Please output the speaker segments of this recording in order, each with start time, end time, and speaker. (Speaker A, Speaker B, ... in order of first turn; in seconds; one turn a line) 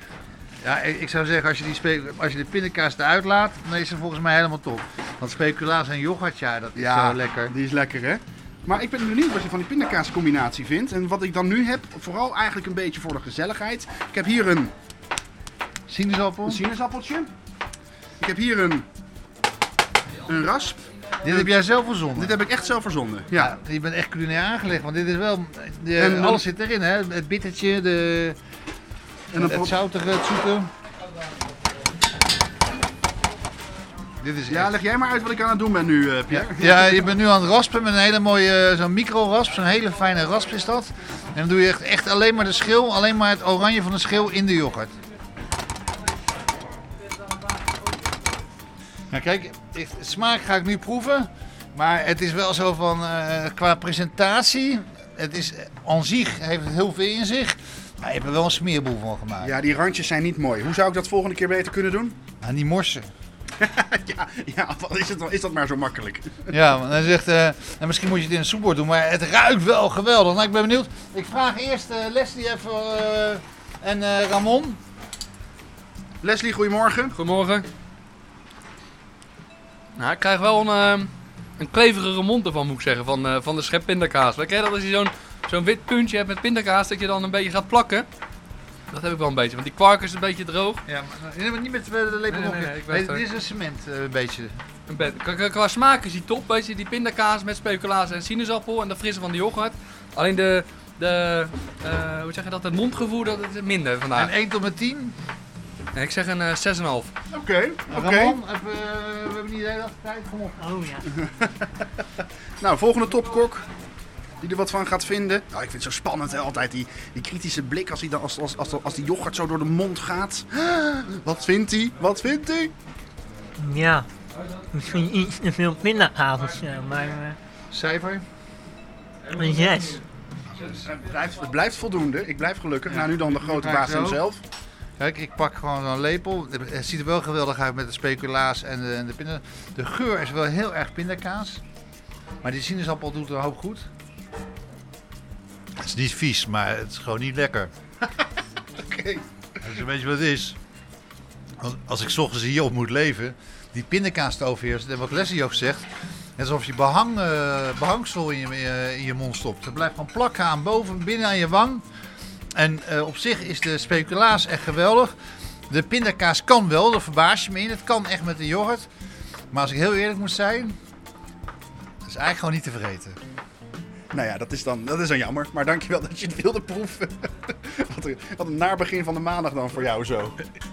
Speaker A: 0.6-7.5
Speaker B: 6.8-14.7
Speaker A: 15.9-16.6
Speaker B: 16.4-17.3
Speaker B: 18.2-18.9
Speaker B: 20.2-21.6
Speaker A: 21.2-22.4
Speaker B: 22.1-23.6
Speaker A: 23.4-28.4
Speaker B: 26.0-26.4
Speaker B: 29.3-29.8
Speaker A: 29.4-30.7
Speaker A: 34.2-34.7
Speaker B: 34.5-37.1
Speaker A: 36.3-44.9
Speaker A: 49.1-59.5
Speaker B: 59.4-62.2
Speaker A: 62.4-63.1
Speaker B: 63.6-66.5
Speaker A: 66.5-74.8
Speaker B: 76.2-77.2
Speaker C: 77.1-77.7
Speaker C: 80.0-88.1
Speaker C: 88.9-90.8
Speaker A: 90.8-94.5
Speaker C: 92.3-93.2
Speaker C: 94.9-104.3
Speaker A: 104.1-105.2
Speaker C: 105.9-107.1
Speaker B: 107.3-108.4
Speaker A: 107.9-110.9
Speaker D: 110.6-111.0
Speaker B: 111.4-111.7
Speaker B: 112.6-113.7
Speaker B: 114.4-122.7
Speaker D: 123.6-124.1
Speaker D: 124.7-127.3
Speaker A: 127.7-128.2
Speaker D: 129.4-130.0
Speaker A: 130.6-130.8
Speaker B: 130.8-134.4
Speaker A: 132.9-134.2
Speaker A: 135.0-141.6
Speaker A: 142.4-143.9
Speaker A: 145.8-147.7
Speaker B: 148.8-149.2
Speaker A: 149.6-150.6
Speaker A: 151.6-161.8
Speaker A: 162.6-165.2
Speaker A: 165.7-168.9
Speaker A: 169.5-170.8
Speaker A: 172.0-173.2
Speaker B: 174.1-180.4